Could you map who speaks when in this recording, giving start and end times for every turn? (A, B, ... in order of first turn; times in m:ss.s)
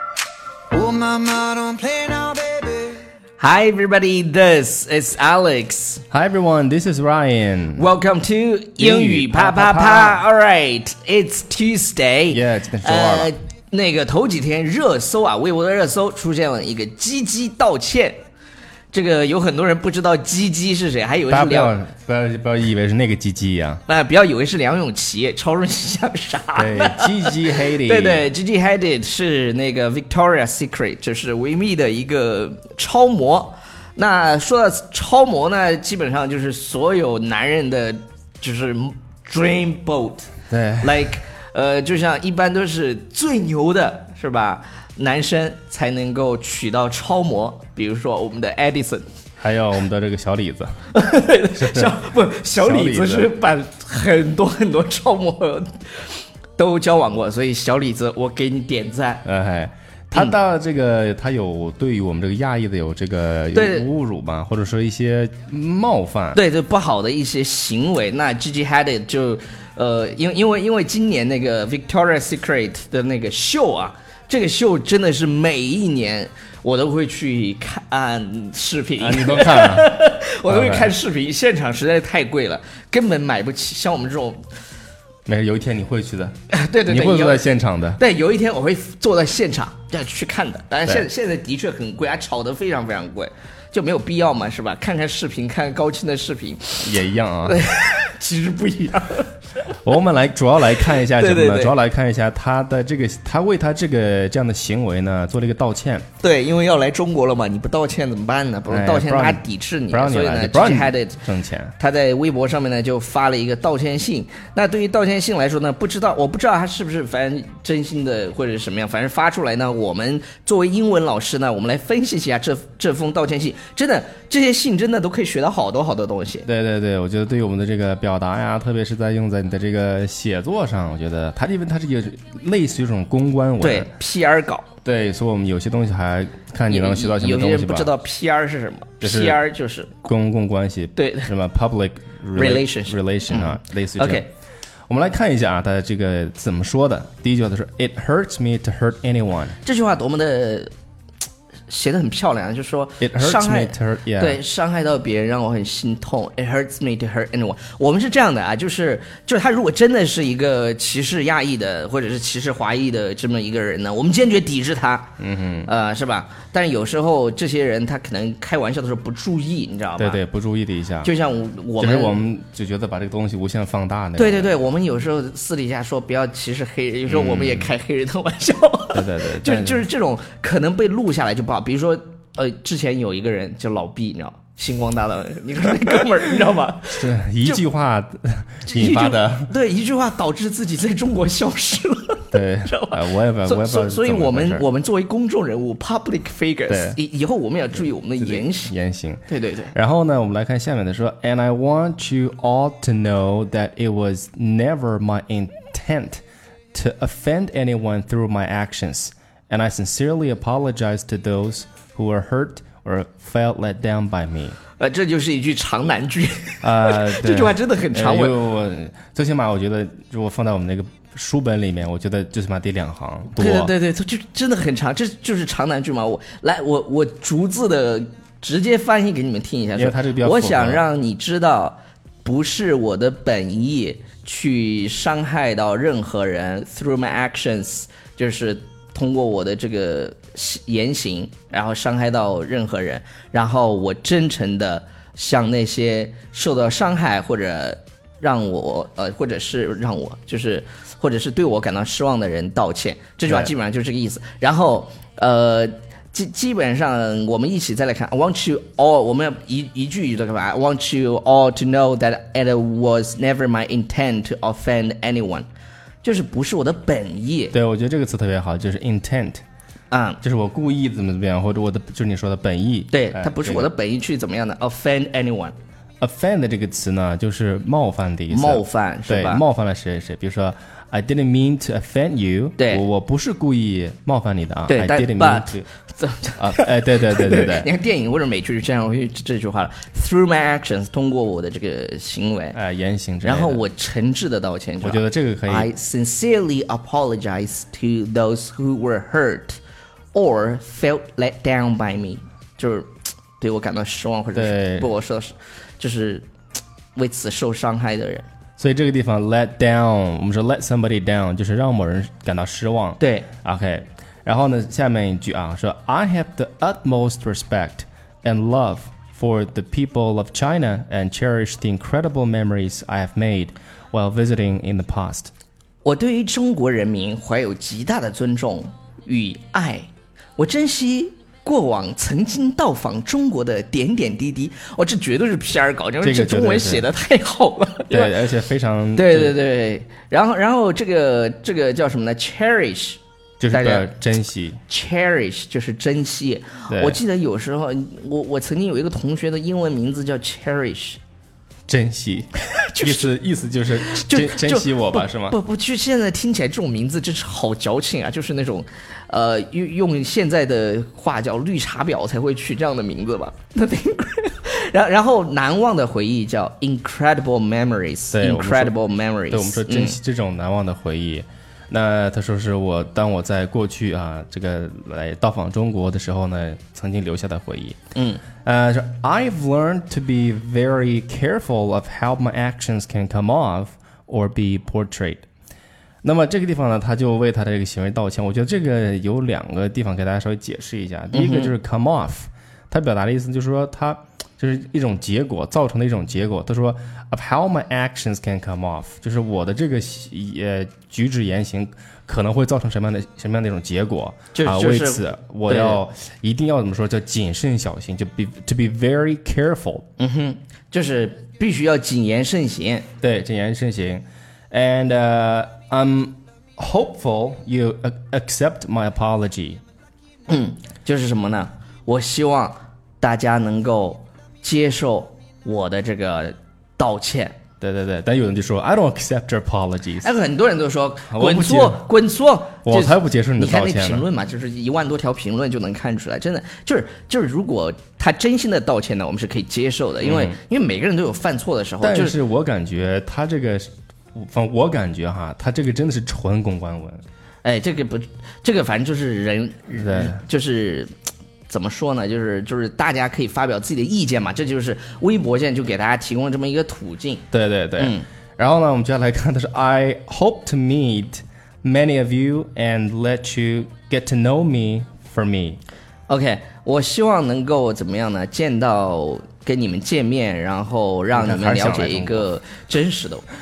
0:00.7-0:03.0 A
0:03.4-0:06.0 B
0:06.1-0:07.9 C
0:07.8-0:18.2 B
0:08.8-0:10.2 C
0:12.3-0:13.3 C
0:18.9-0:21.7 B
0:21.3-0:23.8 C
0:23.9-0:49.1 B
0:26.6-0:28.3 C
0:40.5-0:41.1 C
0:49.4-0:50.8 C
0:50.9-0:59.3 B
0:51.5-0:52.0 C
0:52.6-0:53.3 C
0:59.2-1:06.4 C
1:03.5-1:03.9 B
1:06.3-1:24.4 B
1:19.0-1:19.9 C
1:20.5-1:20.9 C
1:25.3-1:26.3 C
1:26.5-1:27.4 B
1:26.9-1:28.0 C
1:28.0-1:39.6 B
1:36.8-1:37.6 C
1:39.8-1:46.1 C
1:40.8-1:41.8 B
1:46.2-1:51.2 B
1:48.7-1:51.7 C
1:51.8-2:06.5 B
2:06.4-2:13.9 C
2:13.6-2:14.7 B
2:14.8-2:17.9 C
2:16.7-2:20.0 B
2:19.0-2:19.4 C
2:20.0-2:24.3 C
2:21.0-2:21.3 B
2:22.4-2:24.3 B
2:24.9-2:29.6 C
2:29.6-2:30.7 B
2:31.7-2:45.1 B
2:33.0-2:34.4 C
2:45.2-2:45.7 C
2:45.7-2:50.2 B
2:50.0-2:51.1 C
2:51.0-2:52.2 B
2:51.8-2:54.6 C
2:54.2-3:07.6 B
2:57.1-2:57.7 C
2:58.9-2:59.8 C
3:06.9-3:09.5 C
3:08.7-3:18.7 B
3:12.3-3:14.7 C
3:16.7-3:17.0 C
3:17.8-3:26.2 C
3:19.3-3:19.7 B
3:26.7-3:34.6 C
3:34.8-3:38.4 B
3:36.6-3:43.7 C
3:43.4-4:25.5 B
3:49.8-3:50.8 C
4:13.3-4:13.5 C
4:26.0-4:27.6 B
4:27.5-4:29.4 C
4:29.9-4:30.2 B
4:30.2-4:33.7 C
4:32.9-4:35.6 B
4:36.0-4:45.7 C
4:38.3-4:39.4 B
4:42.6-4:42.8 B
4:44.7-4:52.6 B
4:46.4-4:47.7 C
4:52.5-4:53.6 C
4:53.2-4:59.6 B
4:54.8-4:55.7 C
5:00.1-5:06.3 B
5:04.3-5:04.9 C
5:07.0-5:08.3 B
5:08.6-5:25.3 C
5:13.0-5:13.3 B
5:25.8-5:38.1 B
5:36.0-5:36.9 C
5:37.9-5:39.4 C
5:39.0-5:43.0 B
5:43.4-5:44.6 C
5:43.5-5:43.9 B
5:44.7-5:51.0 B
5:46.7-5:47.0 C
5:51.7-5:55.4 C
5:52.6-5:53.1 B
5:53.8-6:10.0 B
6:08.1-6:08.8 C
6:09.3-6:17.8 C
6:18.0-6:18.2 B
6:18.4-6:25.2 C
6:26.0-6:49.9 C
6:31.1-6:31.6 B
6:44.3-6:45.8 B
6:50.0-6:52.9 B
6:53.0-6:59.6 C
7:00.3-7:07.4 B
7:07.6-7:10.1 C
7:10.0-7:22.2 B
7:11.1-7:11.8 C
7:12.6-7:14.1 C
7:20.0-7:20.4 C
7:21.8-7:27.0 C
7:27.4-7:30.9 B
7:29.7-7:30.2 C
7:31.5-7:37.2 B
7:37.3-7:45.6 C
7:37.8-7:38.1 B
7:46.1-7:53.2 B
7:51.1-7:52.3 C